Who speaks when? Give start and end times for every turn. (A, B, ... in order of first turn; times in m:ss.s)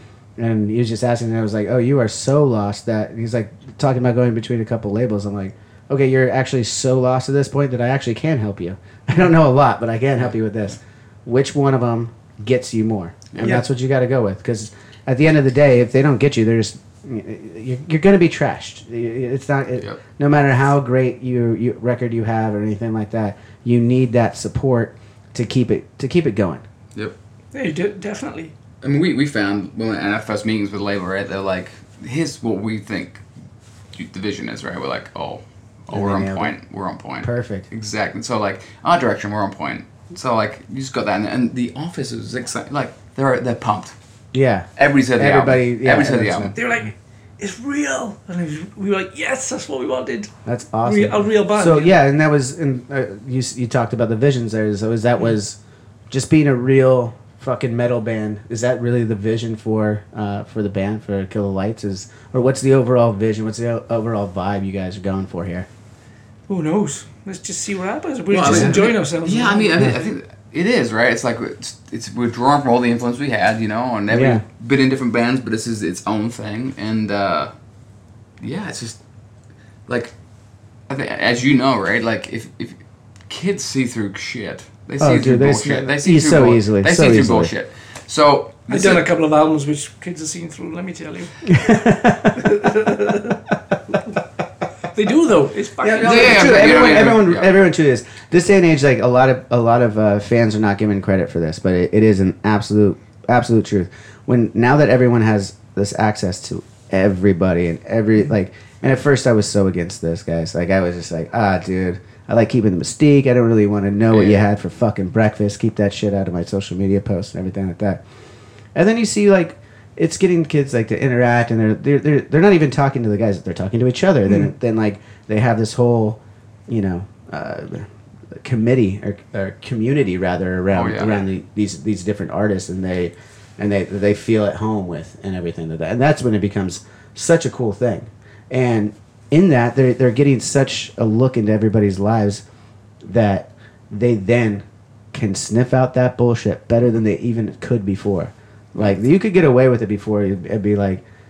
0:00.4-0:26.6 A
0:13.3-0:13.6 B
0:13.4-0:13.6 C
0:27.5-0:28.5 C
0:28.8-0:33.2 B
0:33.9-0:43.9 B
0:35.9-0:36.5 A
0:37.2-0:37.7 A
0:44.3-0:46.7 A
0:44.8-0:46.5 B
0:46.5-0:50.3 C
0:50.4-0:55.6 A
0:50.8-0:52.0 C
0:56.1-1:05.7 A
1:06.5-1:09.9 C
1:08.3-1:17.5 B
1:08.4-1:08.7 A
1:14.1-1:14.4 A
1:18.4-1:19.0 B
1:19.9-1:20.1 B
1:20.9-1:29.1 B
1:25.0-1:27.5 A
1:28.7-1:31.4 C
1:31.4-1:32.5 A
1:32.4-1:33.4 C
1:34.9-1:37.1 C
1:35.8-1:58.0 A
1:36.0-1:37.5 B
1:54.1-1:54.4 B
1:58.7-2:22.4 A
2:10.7-2:11.2 B
2:23.0-2:31.0 A